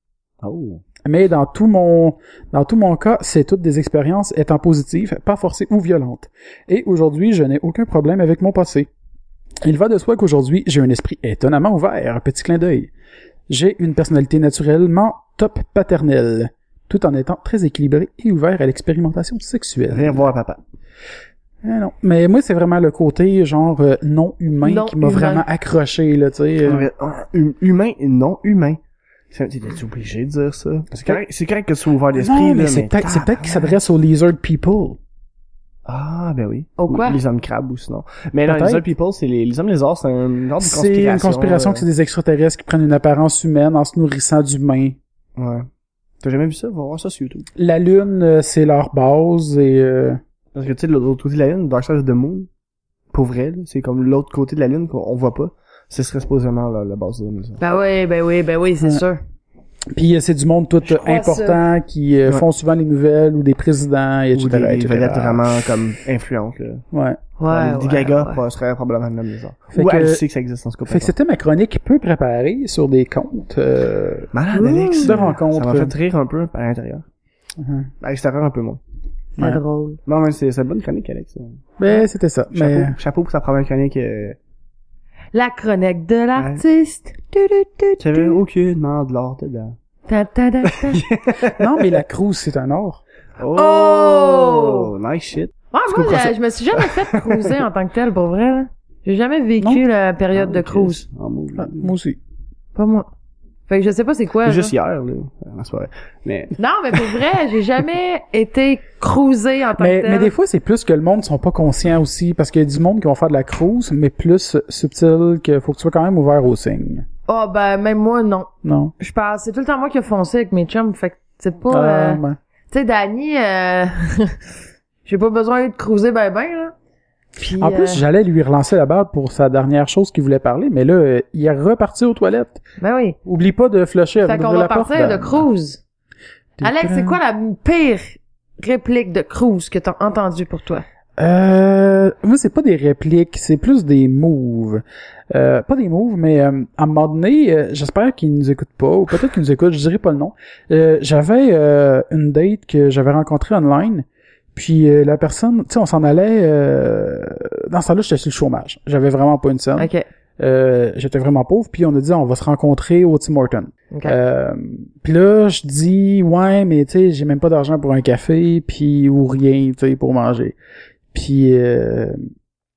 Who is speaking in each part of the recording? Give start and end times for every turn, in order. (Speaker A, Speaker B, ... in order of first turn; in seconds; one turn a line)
Speaker A: 0.4-0.8
Speaker B: 1.0-8.9
Speaker B: 9.6-12.9
Speaker B: 13.5-20.3
Speaker A: 19.9-20.6
Speaker B: 21.6-26.9
Speaker C: 24.6-25.5
Speaker A: 26.6-28.8
Speaker A: 29.3-33.8
Speaker B: 32.1-35.0
Speaker A: 35.9-41.9
Speaker C: 36.8-37.2
Speaker B: 38.5-38.9
Speaker B: 40.6-45.0
Speaker A: 45.4-45.7
Speaker A: 46.2-47.5
Speaker B: 47.6-50.2
Speaker A: 50.5-52.5
Speaker A: 53.1-57.6
Speaker C: 57.6-59.2
Speaker B: 59.9-65.5
Speaker C: 60.8-61.6
Speaker A: 64.3-66.8
Speaker B: 66.9-67.2
Speaker C: 67.4-68.4
Speaker A: 67.5-71.1
Speaker B: 69.7-70.2
Speaker B: 70.9-74.3
Speaker A: 74.3-77.1
Speaker C: 74.5-75.2
Speaker B: 75.0-75.9
Speaker B: 77.6-77.9
Speaker A: 78.0-78.8
Speaker C: 79.4-80.0
Speaker A: 80.1-81.6
Speaker B: 81.8-83.0
Speaker A: 82.5-84.4
Speaker C: 85.3-88.4
Speaker A: 86.4-86.6
Speaker A: 88.0-89.8
Speaker C: 90.1-91.0
Speaker A: 90.6-92.0
Speaker B: 91.4-93.0
Speaker A: 93.4-97.7
Speaker C: 93.5-94.9
Speaker C: 95.7-101.0
Speaker A: 100.3-101.9
Speaker B: 101.6-102.2
Speaker C: 102.8-103.1
Speaker C: 103.7-104.7
Speaker A: 104.4-107.2
Speaker C: 106.6-110.3
Speaker B: 109.8-117.1
Speaker C: 117.3-124.4
Speaker B: 118.6-118.9
Speaker B: 121.7-122.4
Speaker C: 125.1-126.7
Speaker C: 127.4-128.0
Speaker B: 127.6-132.6
Speaker C: 132.8-133.2
Speaker B: 133.2-135.5
Speaker C: 134.2-135.8
Speaker B: 136.6-137.2
Speaker C: 136.6-140.8
Speaker B: 141.2-170.6
Speaker C: 159.8-160.1
Speaker C: 163.9-164.2
Speaker B: 171.1-172.2